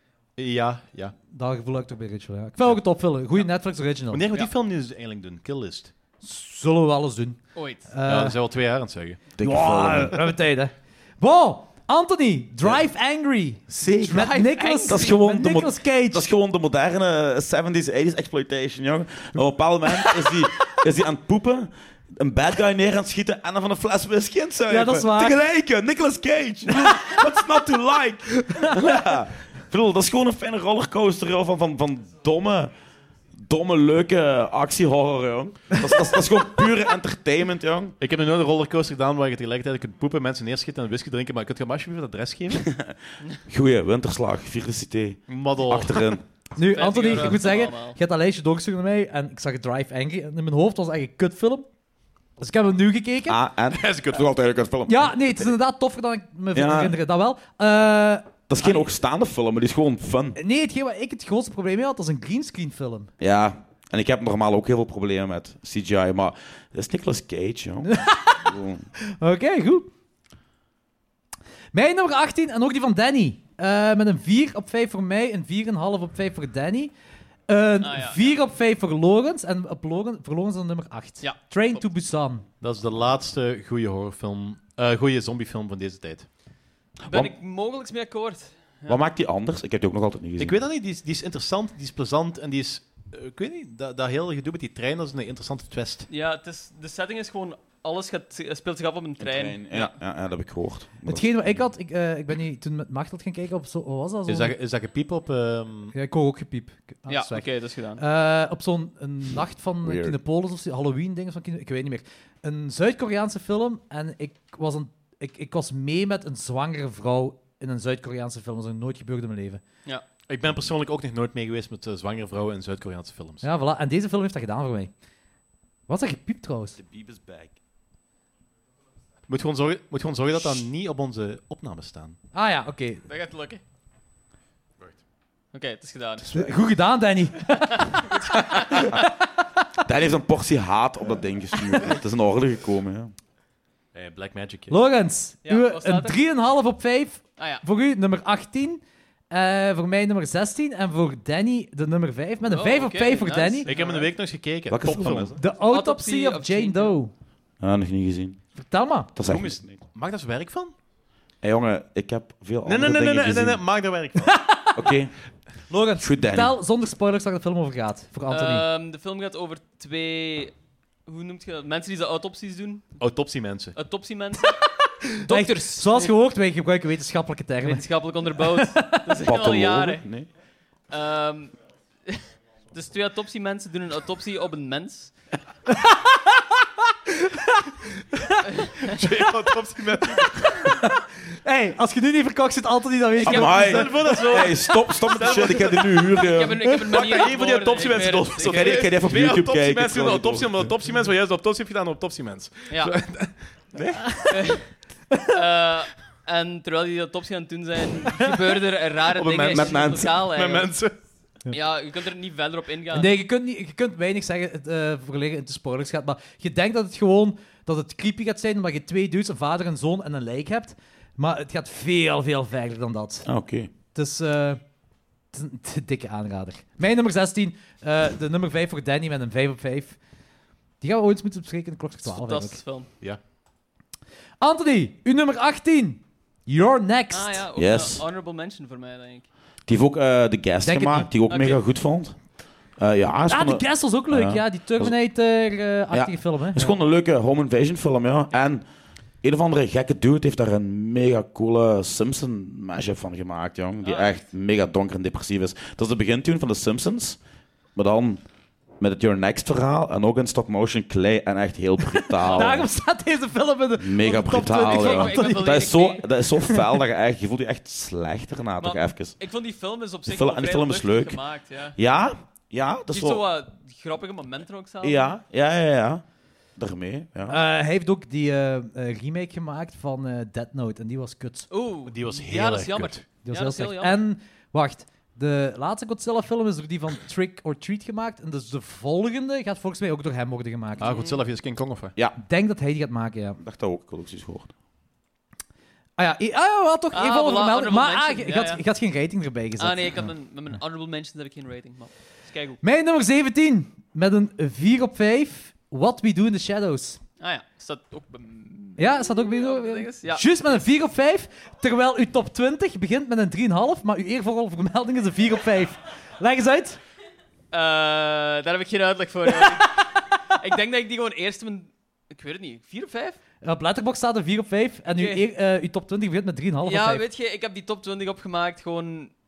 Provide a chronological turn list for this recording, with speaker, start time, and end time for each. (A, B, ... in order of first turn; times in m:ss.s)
0:00.4-0:01.1 A
0:01.3-0:04.3 B
0:04.1-0:05.9 A
0:06.2-0:08.4 B
0:07.5-0:07.9 C
0:08.0-0:09.2 A
0:09.4-0:10.3 D
0:09.4-0:16.3 B
0:13.8-0:14.3 D
0:14.1-0:15.2 C
0:14.8-0:32.7 D
0:24.7-0:25.4 B
0:26.8-0:27.1 B
0:28.6-0:29.0 B
0:33.3-0:38.0 D
0:38.0-0:42.7 A
0:42.5-0:46.2 D
0:45.3-0:46.1 A
0:46.6-0:51.7 B
0:46.6-0:48.0 C
0:52.4-0:53.4 B
0:53.2-0:55.5 D
0:53.7-0:54.2 A
0:54.9-0:58.3 B
0:56.5-0:57.0 D
0:58.5-1:00.4 D
1:00.4-1:03.1 B
1:03.2-1:08.8 D
1:07.8-1:08.5 B
1:09.2-1:09.9 B
1:11.7-1:16.9 B
1:17.5-1:22.4 B
1:17.8-1:18.4 C
1:21.2-1:21.8 C
1:22.6-1:26.3 A
1:27.0-1:27.3 D
1:27.1-1:29.0 C
1:28.9-1:30.6 D
1:30.4-1:36.1 A
1:36.1-1:39.9 C
1:39.2-1:41.6 D
1:41.0-1:44.5 B
1:44.3-1:45.9 A
1:45.9-1:47.4 B
1:47.1-1:48.0 C
1:48.0-1:59.6 B
1:49.8-1:50.2 D
2:00.3-2:03.4 A
2:03.4-2:04.9 B
2:05.9-2:06.8 B
2:06.8-2:07.6 D
2:09.3-2:12.2 A
2:12.3-2:13.0 B
2:13.1-2:13.6 C
2:15.5-2:16.3 C
2:16.3-2:18.0 B
2:17.6-2:18.9 C
2:18.7-2:19.0 B
2:19.8-2:23.1 D
2:23.9-2:24.8 A
2:24.7-2:33.7 B
2:25.4-2:26.2 C
2:27.4-2:27.6 C
2:32.4-2:34.1 C
2:33.7-2:35.4 A
2:34.7-2:35.4 D
2:35.4-2:37.1 B
2:35.6-2:37.0 C
2:37.6-2:38.4 D
2:38.6-2:39.1 B
2:39.1-2:39.8 D
2:39.2-2:40.7 A
2:41.4-2:43.6 D
2:42.6-2:44.4 A
2:44.2-2:44.7 B
2:44.7-2:45.1 D
2:45.7-2:48.6 B
2:45.9-2:46.6 D
2:48.3-2:50.5 C
2:51.0-2:53.0 C
2:53.0-2:53.8 A
2:53.7-2:54.6 C
2:55.2-2:57.9 B
2:55.2-2:56.1 C
2:57.6-3:00.0 C
2:58.4-2:59.0 B
2:59.2-3:00.3 D
3:00.9-3:01.5 C
3:02.1-3:05.1 C
3:05.7-3:06.4 B
3:07.2-3:07.5 B
3:08.1-3:08.4 B
3:08.9-3:10.6 A
3:10.4-3:13.8 B
3:13.2-3:16.4 A
3:13.2-3:16.8 D
3:13.2-3:14.6 C
3:16.2-3:18.9 C
3:16.9-3:24.2 A
3:18.4-3:20.7 D
3:22.7-3:23.0 C
3:24.3-3:24.7 C
3:25.3-3:30.7 C
3:29.1-3:30.9 A
3:29.5-3:30.2 D
3:31.5-3:33.1 C
3:32.9-3:43.3 B
3:43.2-3:43.7 D
3:43.9-3:44.6 B
3:45.3-3:50.0 B
3:50.8-3:52.6 B
3:52.0-3:52.9 C
3:54.4-3:57.4 B
3:57.1-3:59.3 C
3:57.6-3:58.0 D
3:59.7-4:02.2 D
4:00.6-4:01.1 B
4:01.3-4:01.6 C
4:02.8-4:05.0 D
4:03.3-4:06.8 B
4:05.9-4:08.6 D
4:09.2-4:17.2 D
4:13.8-4:14.2 C
4:17.7-4:18.2 D
4:18.8-4:22.7 D
4:22.2-4:25.7 B
4:22.2-4:22.5 C
4:23.8-4:29.2 D
4:24.6-4:26.0 C
4:28.6-4:31.8 C
4:30.0-4:31.2 D
4:31.8-4:33.2 D
4:32.9-4:35.1 C
4:34.8-4:36.0 D
4:36.6-4:37.4 D
4:37.3-4:41.5 B
4:41.5-4:44.0 C
4:41.8-4:43.0 A
4:43.2-4:50.9 B
4:50.8-4:51.2 C
4:50.8-4:51.9 A
4:52.2-4:53.4 B
4:53.4-4:54.5 D
4:56.0-5:00.0 B
4:56.9-4:58.6 C
4:59.6-5:02.6 C
5:02.6-5:07.0 B
5:07.2-5:10.7 C
5:08.8-5:16.8 B
5:17.5-5:23.2 C
5:23.4-5:27.0 B
5:24.9-5:25.3 C
5:26.6-5:29.1 C